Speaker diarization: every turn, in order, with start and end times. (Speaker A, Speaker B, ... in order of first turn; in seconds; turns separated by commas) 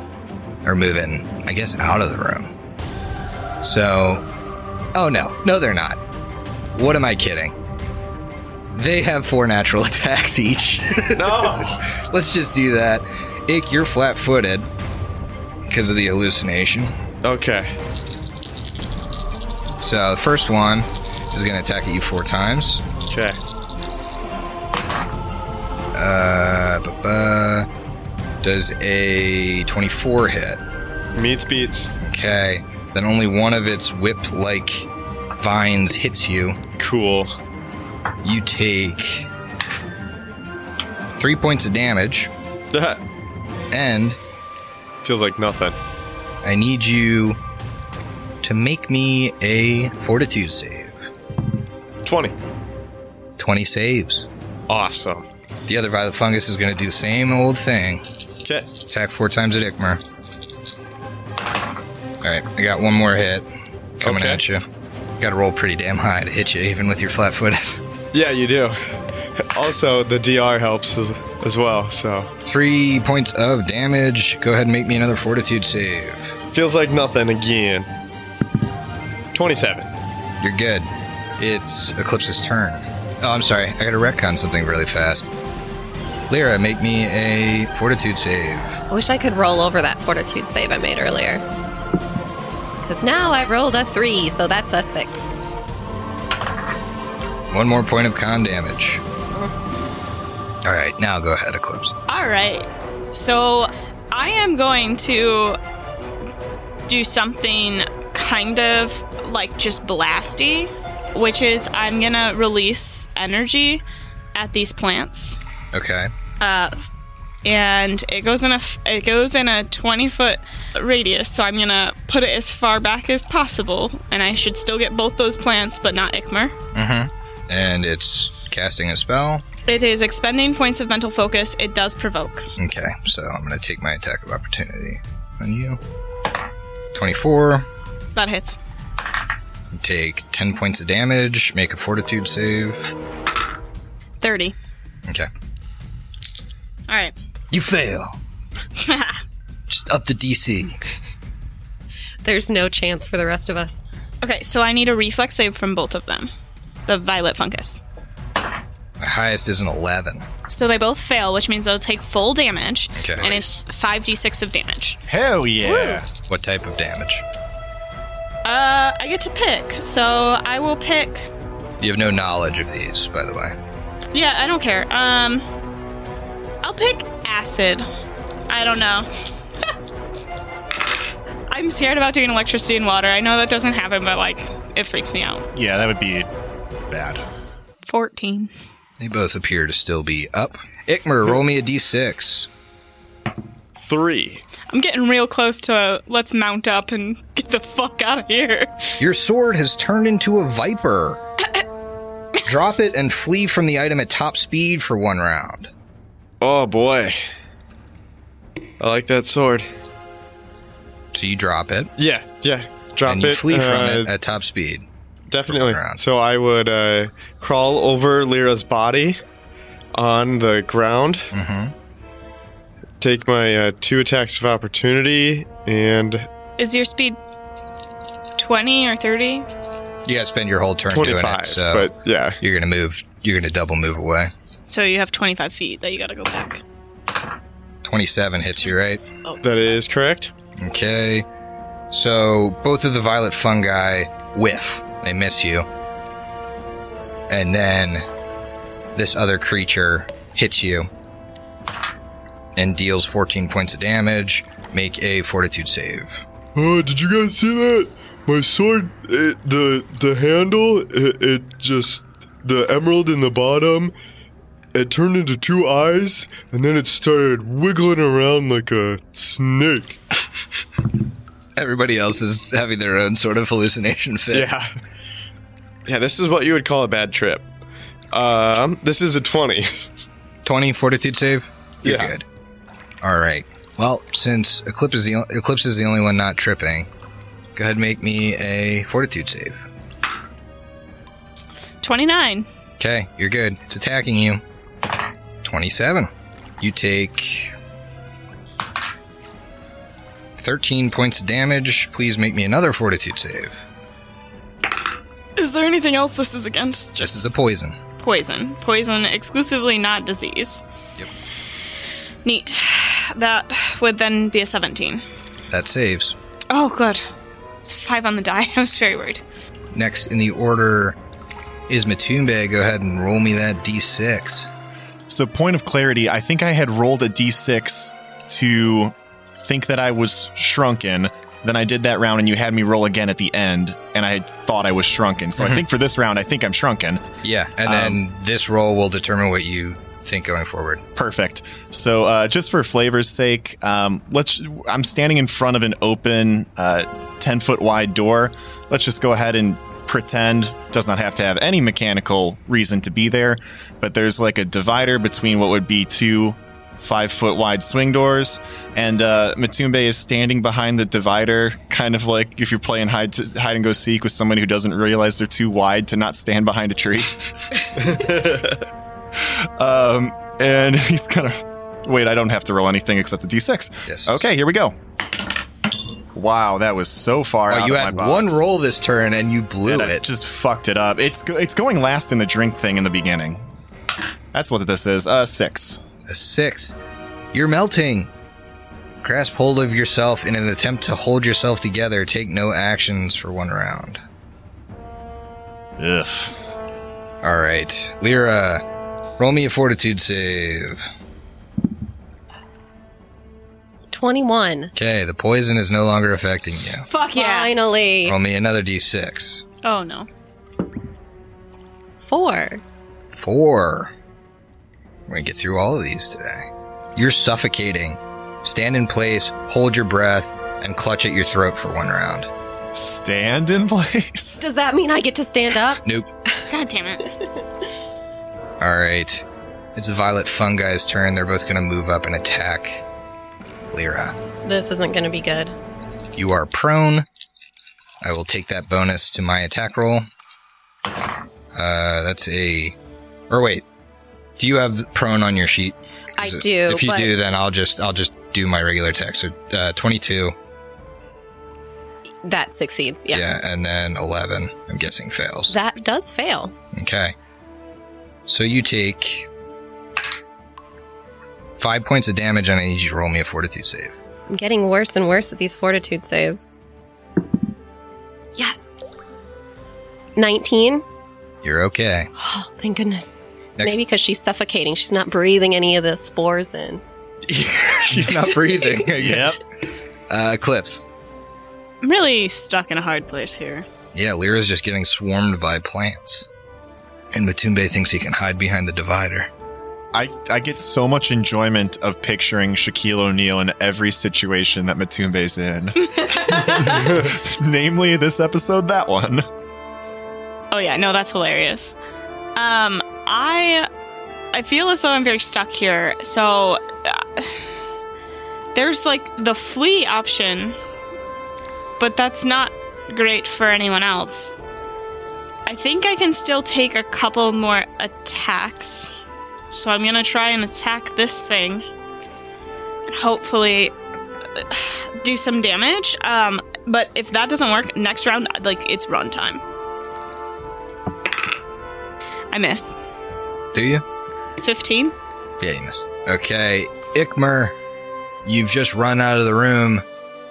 Speaker A: 0.6-2.5, Speaker A: 3.6-4.2, Speaker A: 5.0-6.0, Speaker A: 6.8-7.5, Speaker A: 8.7-14.7, Speaker B: 11.2-11.8, Speaker A: 15.7-17.0, Speaker B: 17.2-17.8, Speaker A: 19.8-22.8, Speaker B: 23.1-23.4, Speaker A: 25.9-27.7, Speaker A: 28.4-30.6, Speaker B: 31.1-31.9, Speaker A: 32.0-36.6, Speaker B: 36.8-37.4, Speaker A: 38.2-39.3, Speaker A: 41.2-42.3, Speaker B: 42.7-43.0, Speaker A: 43.7-44.2, Speaker B: 45.0-45.8, Speaker A: 46.4-47.4, Speaker A: 48.4-51.1, Speaker B: 52.0-52.4, Speaker A: 53.4-54.3, Speaker B: 54.7-55.3, Speaker A: 55.7-58.0, Speaker B: 58.5-58.7, Speaker A: 58.9-60.0, Speaker A: 62.2-63.5, Speaker A: 64.0-64.7, Speaker B: 64.0-64.4, Speaker A: 65.2-67.8, Speaker B: 68.1-72.3, Speaker A: 72.5-76.4, Speaker B: 76.5-77.9, Speaker B: 79.3-79.9, Speaker A: 80.4-85.3, Speaker A: 86.3-88.8, Speaker C: 88.9-91.4, Speaker C: 92.8-95.3, Speaker A: 97.5-99.0, Speaker A: 100.6-102.0, Speaker D: 102.1-105.6, Speaker D: 106.9-113.8, Speaker D: 114.3-115.4, Speaker A: 115.7-116.1, Speaker D: 116.4-116.8, Speaker D: 117.4-126.5, Speaker A: 126.7-129.4, Speaker D: 129.7-132.5, Speaker A: 132.6-135.8, Speaker A: 136.9-137.7, Speaker D: 138.2-138.6, Speaker A: 139.7-142.9, Speaker D: 144.2-144.6, Speaker D: 146.9-147.1, Speaker A: 147.5-148.2, Speaker D: 148.8-149.2, Speaker A: 149.7-150.8, Speaker C: 152.2-153.8, Speaker D: 154.2-156.3, Speaker D: 156.9-157.8, Speaker A: 159.0-160.3, Speaker D: 160.5-165.0, Speaker A: 162.9-163.4, Speaker E: 165.1-166.1, Speaker D: 165.7-166.0, Speaker A: 166.2-167.2, Speaker D: 168.4-171.3, Speaker A: 171.8-173.6, Speaker D: 174.1-175.4, Speaker D: 176.6-177.9, Speaker D: 178.5-179.1, Speaker D: 181.5-185.5, Speaker E: 185.5-186.3, Speaker E: 186.9-187.2, Speaker D: 187.9-188.5, Speaker A: 189.0-192.5, Speaker B: 193.8-194.4, Speaker D: 194.7-199.0, Speaker A: 199.0-201.2, Speaker A: 202.5-205.7, Speaker B: 206.4-207.2, Speaker B: 208.8-209.7, Speaker A: 211.1-211.9, Speaker B: 212.0-214.1, Speaker A: 213.1-214.9, Speaker B: 215.3-219.2, Speaker A: 215.4-216.0, Speaker B: 219.9-221.3, Speaker A: 221.3-221.7, Speaker B: 223.0-226.3, Speaker D: 226.6-227.2, Speaker D: 228.4-229.5, Speaker A: 230.1-234.3, Speaker B: 230.9-232.4, Speaker D: 234.7-236.6, Speaker A: 237.8-239.0, Speaker B: 239.4-240.3, Speaker A: 240.6-241.3, Speaker A: 241.9-245.7, Speaker A: 247.3-248.1, Speaker A: 248.9-250.9, Speaker A: 252.6-256.2, Speaker B: 256.6-263.9, Speaker B: 264.7-270.0, Speaker A: 271.6-274.5, Speaker B: 274.3-274.7, Speaker B: 275.9-277.5, Speaker B: 278.1-279.9, Speaker A: 280.4-282.2, Speaker B: 281.8-282.1, Speaker A: 283.0-286.9, Speaker A: 287.6-289.7, Speaker D: 291.8-292.5, Speaker A: 292.8-294.4, Speaker A: 295.4-297.6, Speaker A: 300.4-303.6, Speaker D: 305.4-307.3, Speaker A: 307.0-307.8, Speaker D: 308.0-310.6, Speaker D: 312.2-315.0, Speaker A: 315.5-316.1, Speaker D: 316.5-317.1, Speaker D: 317.6-319.2, Speaker A: 319.7-321.0, Speaker A: 321.7-324.5, Speaker E: 325.1-337.1, Speaker A: 335.4-335.6, Speaker A: 337.2-340.8, Speaker E: 337.7-338.0, Speaker E: 341.0-368.0, Speaker B: 367.8-368.6, Speaker E: 369.2-374.8, Speaker A: 373.9-374.3, Speaker E: 376.1-378.5, Speaker A: 377.5-380.1, Speaker E: 379.7-383.4, Speaker E: 384.3-385.8, Speaker A: 386.1-386.8, Speaker A: 387.3-388.1, Speaker A: 389.0-394.0, Speaker E: 395.8-396.4, Speaker A: 397.2-398.6, Speaker A: 399.2-400.9, Speaker C: 403.9-404.7, Speaker A: 404.8-406.9, Speaker D: 406.9-407.5, Speaker C: 407.1-408.2, Speaker A: 408.1-409.4, Speaker D: 409.6-410.1, Speaker C: 412.0-412.6, Speaker A: 413.1-413.9, Speaker A: 415.1-422.3, Speaker E: 422.7-424.5, Speaker C: 424.4-425.8, Speaker A: 425.8-426.1, Speaker D: 426.5-427.0, Speaker A: 428.6-432.8, Speaker A: 433.7-434.2, Speaker C: 434.4-435.6, Speaker A: 436.2-437.1, Speaker A: 438.0-440.1, Speaker A: 441.5-442.8, Speaker A: 443.3-443.6, Speaker A: 444.4-450.3, Speaker C: 446.2-447.1, Speaker C: 452.2-453.3, Speaker A: 453.1-455.5, Speaker C: 455.5-456.5, Speaker A: 456.7-457.1, Speaker A: 458.3-459.3, Speaker A: 461.6-463.9, Speaker C: 464.3-466.6, Speaker C: 468.4-468.8, Speaker C: 470.2-470.8, Speaker A: 471.4-472.1, Speaker C: 472.2-476.8, Speaker A: 477.3-479.4, Speaker E: 479.0-479.4, Speaker A: 480.1-480.9, Speaker D: 481.8-483.7, Speaker A: 483.9-486.3, Speaker A: 487.1-489.3, Speaker E: 489.9-499.3, Speaker D: 495.9-496.8, Speaker D: 500.5-501.8, Speaker D: 502.4-503.7, Speaker D: 504.3-507.4, Speaker D: 508.6-510.6, Speaker D: 511.8-514.4, Speaker D: 515.5-518.9, Speaker D: 519.5-521.6, Speaker D: 522.9-523.7, Speaker D: 524.4-529.4, Speaker D: 532.3-532.8, Speaker A: 533.5-533.8, Speaker D: 534.4-534.9, Speaker A: 535.4-537.6, Speaker A: 538.2-539.9